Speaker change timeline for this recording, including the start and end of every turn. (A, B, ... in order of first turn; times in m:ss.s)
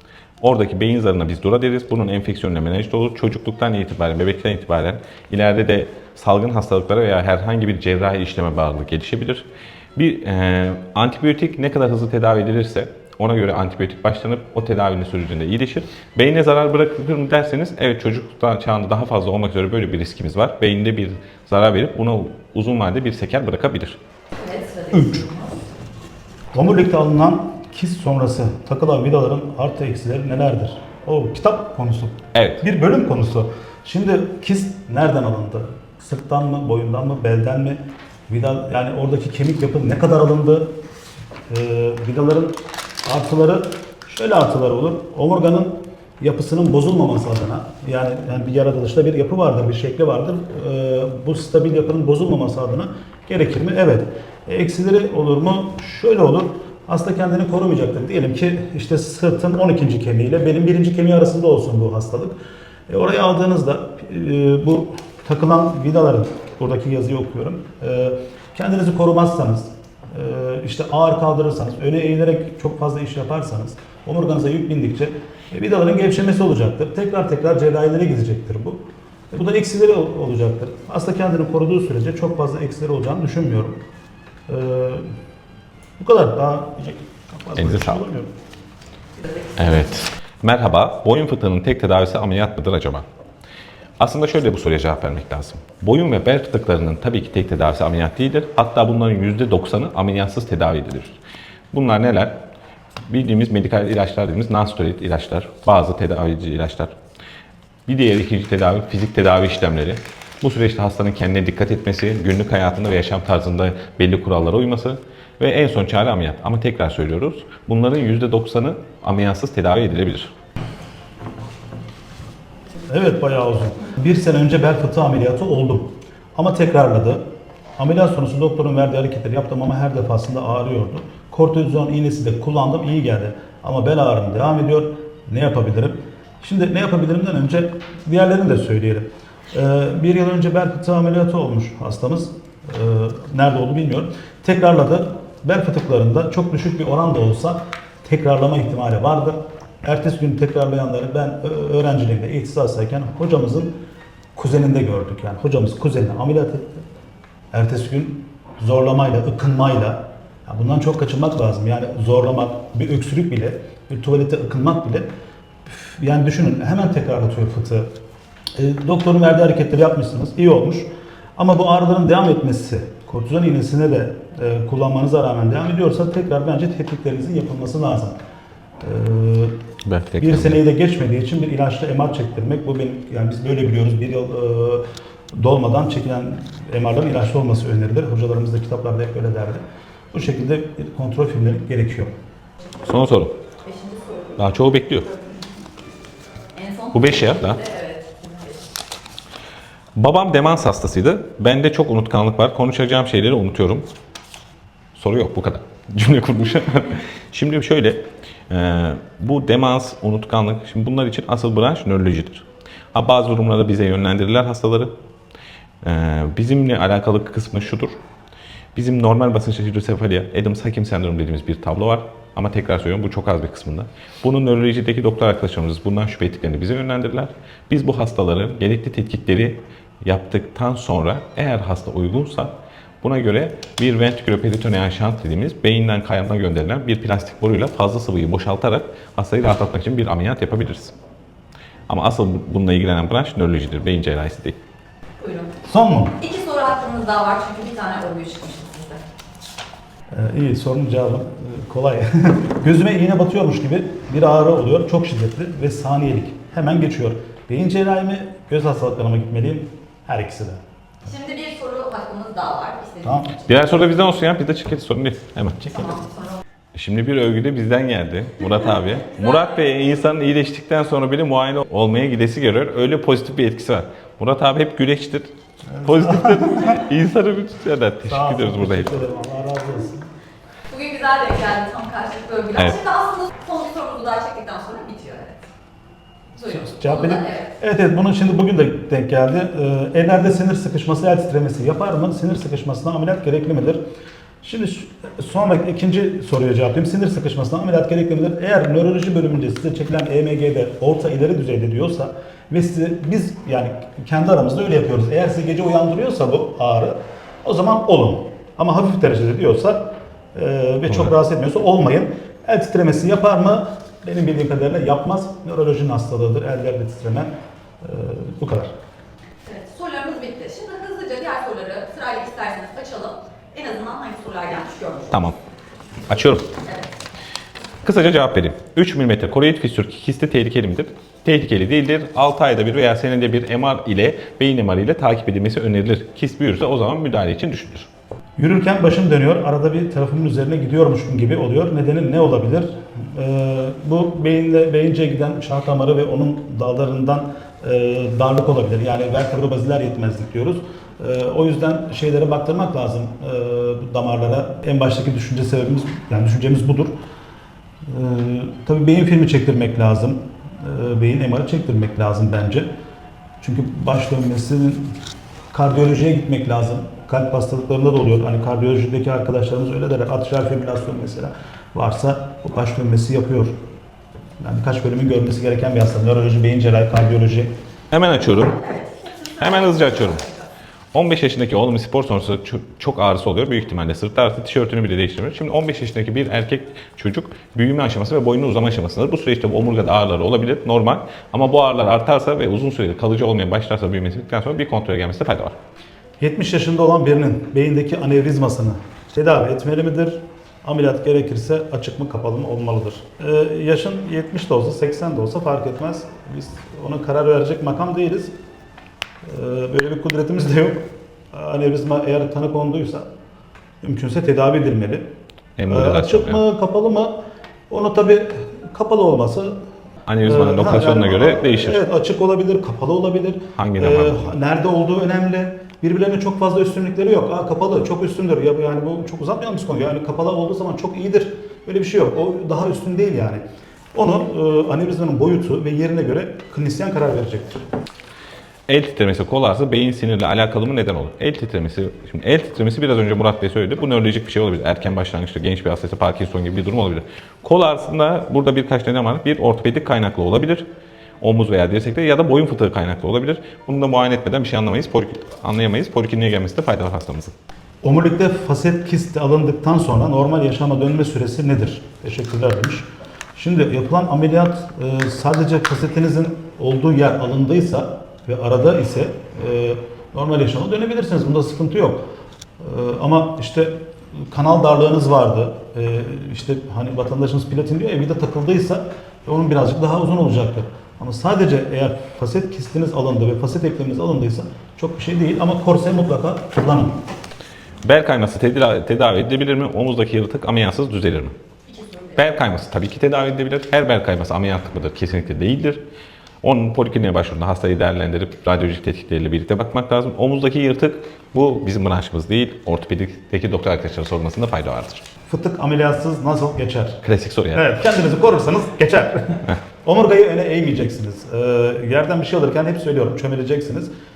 0:00.4-0:24.0 A
0:24.4-0:25.6 B
0:26.5-0:40.7 C
0:32.3-0:32.6 A
0:41.5-1:02.4 C
1:02.9-1:23.8 C
1:24.5-1:25.1 C
1:26.0-1:28.3 C
1:27.6-1:28.0 A
1:29.5-1:33.0 A
1:34.0-1:41.2 A
1:41.7-1:42.4 A
1:43.1-1:46.9 A
1:47.9-2:00.3 A
2:02.9-2:07.2 C
2:07.8-2:33.7 C
2:34.3-2:36.8 C
2:37.5-2:45.1 C
2:45.6-2:47.9 C
2:48.6-2:58.2 C
2:58.8-2:59.6 C
2:59.8-3:00.6 A
3:00.2-3:09.6 C
3:10.1-3:12.1 C
3:12.8-3:13.3 A
3:13.6-3:14.4 B
3:14.4-3:15.1 A
3:16.5-3:18.6 B
3:16.9-3:17.6 A
3:20.0-3:23.8 A
3:24.9-3:34.9 A
3:35.8-3:38.0 A
3:38.7-3:52.5 A
3:53.0-4:00.9 A
4:01.9-4:04.6 A
4:05.2-4:05.5 B
4:05.6-4:06.2 C
4:06.2-4:09.0 B
4:10.1-4:20.6 C
4:21.0-4:23.3 B
4:23.0-4:23.3 C
4:23.4-4:25.7 A
4:25.7-4:26.4 B
4:26.7-4:39.0 A
4:35.7-4:36.8 C
4:38.0-4:40.1 C
4:40.7-4:45.4 B
4:46.4-4:47.5 B
4:46.4-4:53.8 C
4:54.4-5:09.8 C
5:10.3-5:17.3 C
5:17.8-5:18.7 C
5:19.4-5:25.2 B
5:25.1-5:25.4 A
5:26.1-5:26.5 A
5:26.6-5:26.9 B
5:27.8-5:37.9 A
5:38.4-5:56.9 C
5:57.8-6:02.7 C
6:03.4-6:05.0 C
6:05.5-6:13.6 C
6:14.4-6:17.5 C
6:17.9-6:18.6 A
6:18.6-6:20.3 B
6:19.4-6:20.2 A
6:20.9-6:35.5 A
6:36.2-6:48.3 C
6:49.2-6:53.1 C
6:53.8-6:55.0 C
6:55.6-6:56.4 A
6:55.7-6:57.2 C
6:57.7-6:59.6 C
7:00.0-7:01.8 A
7:00.2-7:13.4 C
7:03.6-7:04.3 A
7:13.9-7:17.6 C
7:18.7-7:30.6 A
7:31.2-7:37.3 A
7:37.8-7:52.0 C
7:52.6-8:07.0 C
8:07.8-8:11.4 A
8:11.7-8:12.1 B
8:12.1-8:15.8 A
8:16.4-8:25.0 A
8:25.3-8:27.0 C
8:27.0-8:27.6 A
8:27.5-8:33.9 C